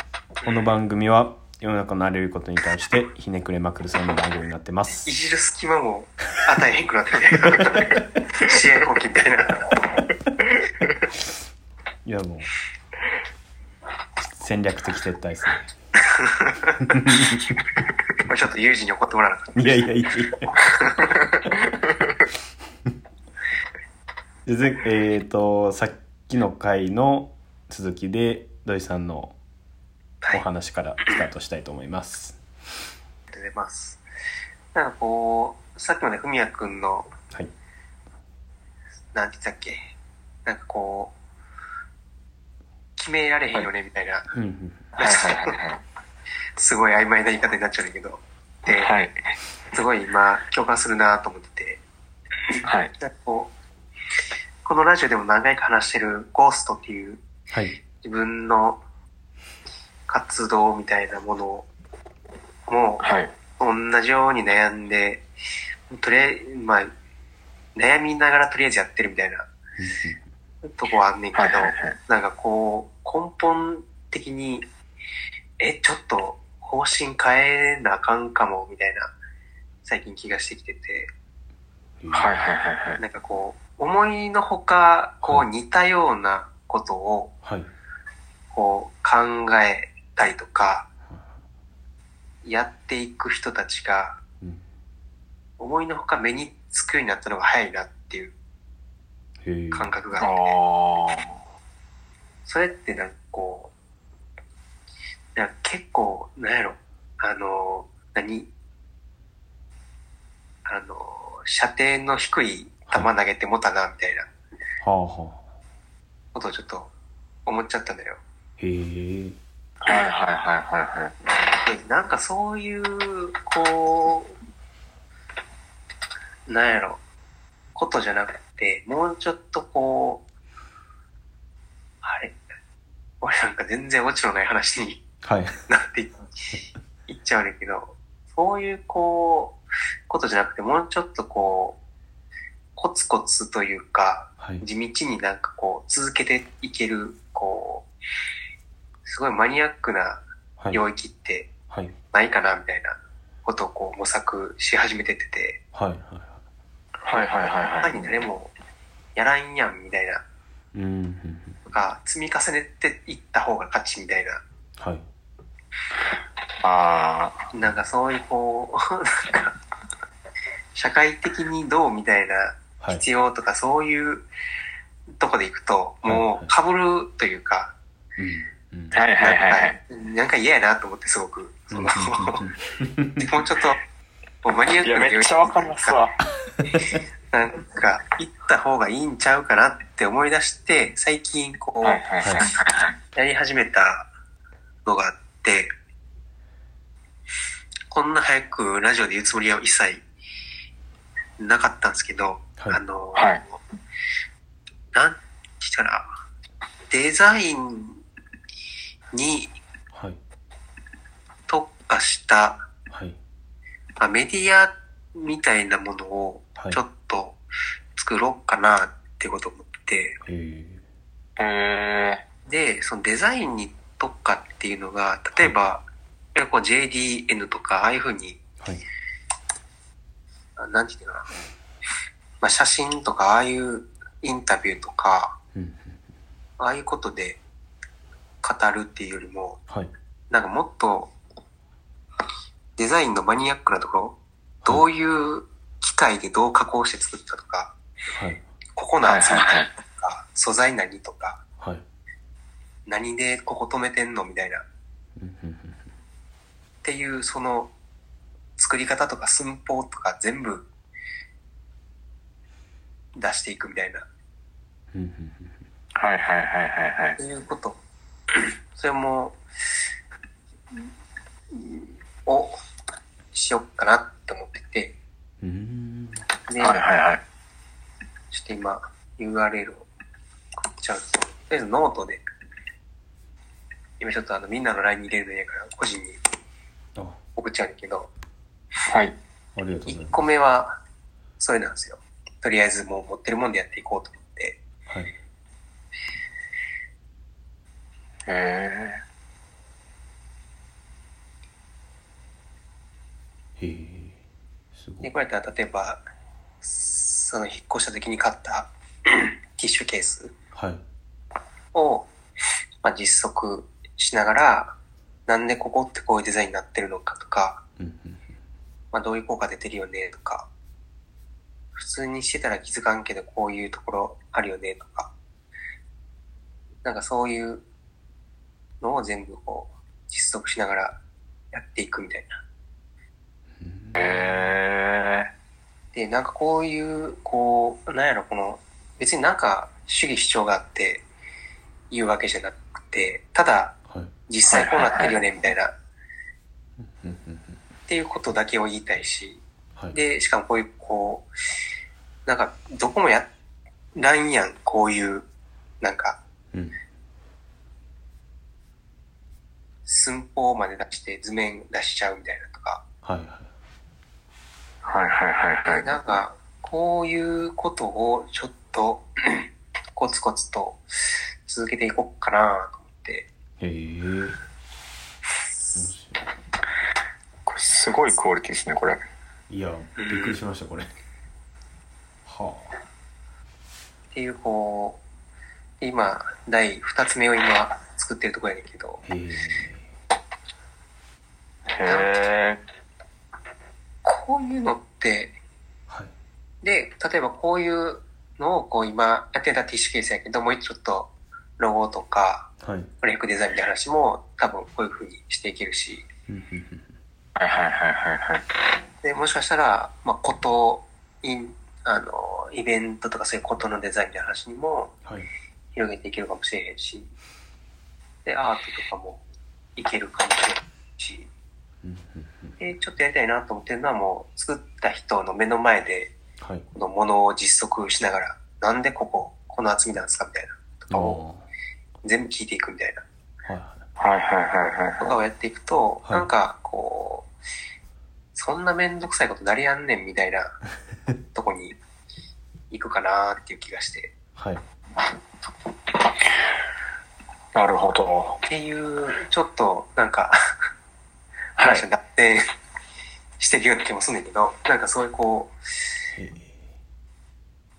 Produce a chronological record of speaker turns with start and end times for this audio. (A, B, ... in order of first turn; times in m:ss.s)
0:00.4-0:05.1 A
0:04.9-0:09.8 B
0:12.0-0:12.5 A
0:14.2-0:15.6 A
0:16.2-0:16.6 B
0:16.9-0:17.4 A
0:18.3-0:19.8 B
0:19.6-0:20.6 A
0:20.6-0:21.3 B
0:24.4-0:29.4 A
0:30.3-0:32.4 A
0:33.3-0:34.0 B
0:34.7-0:37.1 B
0:39.1-0:39.9 B
0:40.4-0:41.1 B
0:43.0-0:44.3 B
0:44.3-0:44.8 A
0:44.9-0:45.8 C
0:45.0-0:45.6 B
0:46.6-0:48.9 B
0:48.7-0:49.2 C
0:49.7-0:51.8 B
0:52.6-0:52.9 C
0:53.0-0:53.5 B
0:54.6-0:57.2 B
0:57.5-0:57.8 A
0:58.0-0:58.8 B
1:00.1-1:01.7 B
1:02.7-1:03.0 B
1:03.0-1:03.3 C
1:03.6-1:05.3 B
1:05.9-1:06.9 B
1:07.7-1:09.5 B
1:09.8-1:10.2 A
1:10.6-1:14.6 B
1:11.3-1:12.0 C
1:15.6-1:19.1 B
1:19.8-1:21.1 B
1:22.0-1:22.4 A
1:22.1-1:23.0 C
1:23.0-1:27.4 B
1:27.4-1:27.7 A
1:28.5-1:30.9 B
1:31.1-1:31.3 A
1:32.4-1:34.2 B
1:35.6-1:38.3 B
1:39.4-1:39.9 A
1:39.7-1:40.6 B
1:40.2-1:41.3 C
1:42.4-1:43.7 B
1:45.3-1:48.5 B
1:50.6-1:54.3 B
1:54.8-1:55.4 A
1:56.3-1:56.9 B
1:57.4-1:58.2 B
1:58.6-1:59.4 A
1:59.8-2:01.1 C
2:01.6-2:04.4 B
2:06.5-2:07.0 B
2:07.7-2:10.2 B
2:12.0-2:12.4 B
2:13.2-2:15.0 B
2:15.2-2:15.5 A
2:15.7-2:16.2 B
2:17.1-2:21.8 B
2:22.7-2:27.9 B
2:29.0-2:31.5 B
2:31.7-2:31.9 A
2:32.1-2:35.6 B
2:35.7-2:36.4 A
2:37.0-2:38.0 C
2:37.1-2:38.5 B
2:39.2-2:40.2 B
2:40.7-2:41.6 A
2:41.6-2:44.4 B
2:44.8-2:45.0 A
2:46.6-2:47.5 C
2:47.5-2:49.6 B
2:50.7-2:54.3 B
2:55.2-2:57.7 B
2:56.0-2:56.5 A
2:58.2-2:59.0 A
2:58.9-2:59.8 C
2:59.2-3:02.5 B
3:01.7-3:03.2 A
3:03.2-3:03.8 B
3:04.4-3:06.0 B
3:04.8-3:06.1 C
3:07.3-3:12.0 B
3:11.8-3:13.0 C
3:12.2-3:12.5 A
3:13.1-3:14.1 B
3:14.8-3:15.7 B
3:17.9-3:20.0 B
3:21.4-3:23.6 B
3:23.1-3:23.4 C
3:24.9-3:26.1 B
3:26.9-3:28.0 B
3:29.1-3:29.6 B
3:29.9-3:30.2 A
3:31.5-3:32.6 B
3:32.9-3:33.2 A
3:34.0-3:37.4 B
3:38.0-3:40.2 B
3:40.2-3:40.8 A
3:41.4-3:42.2 C
3:42.5-3:48.4 B
3:50.6-3:51.3 B
3:52.4-3:55.4 B
3:55.5-3:56.0 A
3:56.6-3:57.4 B
3:58.4-3:59.6 B
4:00.3-4:01.1 B
4:02.8-4:07.7 B
4:08.1-4:08.4 A
4:08.8-4:11.4 B
4:09.0-4:09.7 C
4:12.9-4:14.6 B
4:15.2-4:15.9 A
4:16.8-4:17.7 B
4:18.6-4:20.7 B
4:23.2-4:24.1 B
4:24.9-4:25.6 A
4:26.0-4:27.2 C
4:27.2-4:27.8 B
4:28.7-4:29.4 B
4:31.5-4:32.6 B
4:33.3-4:35.0 B
4:35.4-4:36.2 A
4:36.5-4:36.8 B
4:36.6-4:37.2 C
4:38.3-4:39.9 B
4:40.7-4:42.2 B
4:44.0-4:46.2 B
4:47.4-4:48.1 B
4:48.9-4:49.2 C
4:49.6-4:50.2 A
4:49.9-4:50.8 B
4:51.4-4:54.6 B
4:54.9-4:55.1 A
4:58.3-4:59.0 C
5:03.6-5:04.2 A
5:04.7-5:05.1 A
5:05.0-5:06.0 B
5:06.6-5:10.3 B
5:10.5-5:10.8 A
5:11.7-5:12.1 B
5:12.8-5:14.8 B
5:15.3-5:17.6 B
5:17.8-5:18.2 A
5:18.9-5:20.5 B
5:21.7-5:25.1 B
5:26.8-5:27.6 B
5:28.8-5:31.0 B
5:31.5-5:32.4 B
5:33.6-5:34.5 A
5:34.0-5:35.3 C
5:35.9-5:41.0 B
5:41.9-5:45.7 B
5:44.5-5:45.2 C
5:47.0-5:47.6 A
5:47.9-5:51.3 B
5:52.2-5:53.3 B
5:54.0-5:55.3 B
5:55.8-5:56.2 B
5:59.8-6:02.8 B
6:03.0-6:03.5 A
6:04.8-6:06.0 C
6:05.6-6:10.9 B
6:11.4-6:13.3 B
6:13.6-6:14.4 A
6:15.7-6:16.2 A
6:17.4-6:19.0 C
6:19.5-6:20.9 A
6:20.0-6:20.4 B
6:22.2-6:22.7 A
6:24.1-6:25.0 B
6:25.8-6:29.0 B
6:29.0-6:29.9 A
6:31.7-6:32.6 C
6:31.8-6:32.2 B
6:34.0-6:35.4 B
6:36.6-6:46.1 B
6:42.6-6:42.9 A
6:46.3-6:46.9 A
6:47.4-6:48.4 C
6:49.0-6:55.0 B
6:55.7-6:57.1 B
6:58.2-6:59.2 B
6:59.8-7:01.3 B
7:01.8-7:02.6 A
7:02.6-7:06.1 B
7:06.4-7:06.6 A
7:06.7-7:11.2 B
7:10.9-7:11.4 A
7:12.0-7:13.0 B
7:13.4-7:13.9 A
7:14.0-7:15.2 C
7:15.0-7:17.3 B
7:18.3-7:20.6 B
7:21.3-7:21.8 B
7:22.7-7:24.1 B
7:24.4-7:24.6 A
7:27.5-7:28.4 C
7:28.4-7:30.4 B
7:31.6-7:31.8 C
7:31.6-7:32.4 B
7:33.4-7:35.5 B
7:36.2-7:36.6 A